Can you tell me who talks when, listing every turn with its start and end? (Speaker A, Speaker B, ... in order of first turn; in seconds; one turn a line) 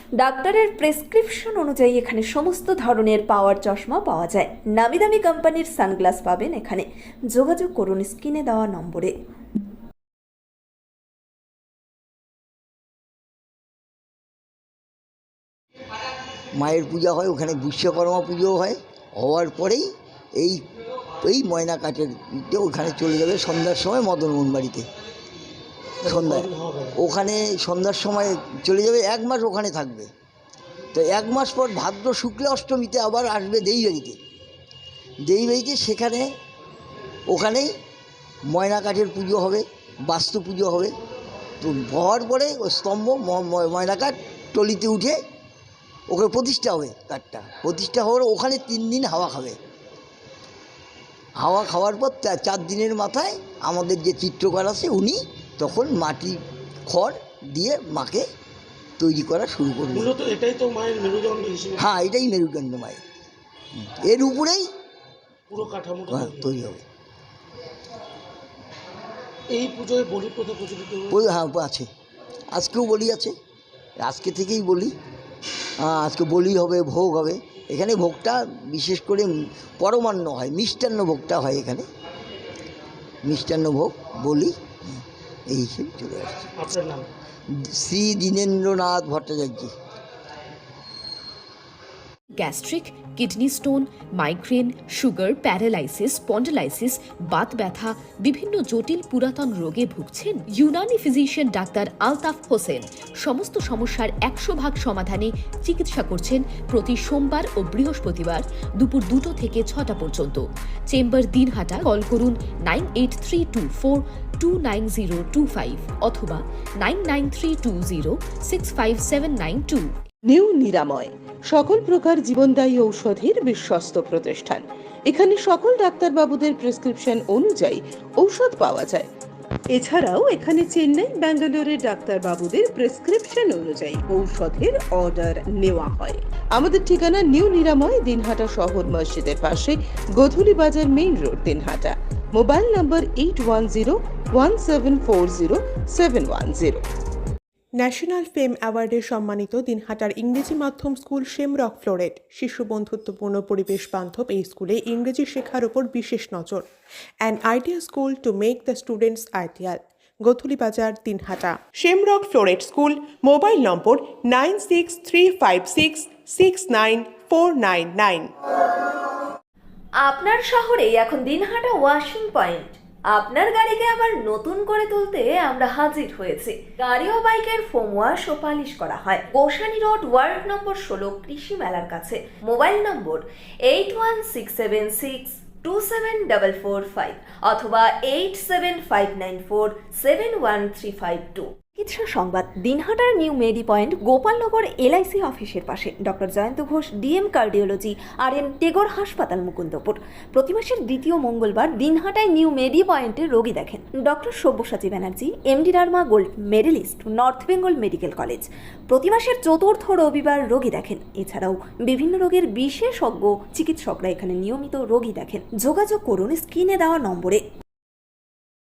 Speaker A: 0.2-9.1
Speaker B: 16.6-20.6
Speaker B: 21.2-24.9
Speaker B: 26.0-30.1
Speaker C: 26.0-26.9
Speaker B: 30.9-34.2
Speaker B: 35.2-36.3
Speaker B: 37.3-37.7
Speaker B: 38.5-40.9
Speaker B: 41.6-45.2
Speaker B: 46.1-49.6
Speaker B: 51.4-58.2
Speaker B: 59.0-60.1
Speaker C: 59.9-61.9
Speaker B: 61.8-63.0
Speaker B: 63.7-64.7
Speaker C: 65.5-66.5
Speaker B: 66.1-66.8
Speaker C: 69.5-71.2
Speaker B: 71.1-71.9
Speaker B: 72.5-73.3
Speaker B: 74.0-74.9
Speaker B: 75.8-81.8
Speaker B: 83.2-86.5
Speaker C: 86.6-87.1
Speaker B: 87.5-89.7
Speaker D: 92.4-119.9
Speaker E: 120.3-129.1
Speaker E: 129.7-146.8
Speaker F: 147.7-156.7
Speaker F: 157.2-168.3
Speaker A: 170.0-217.4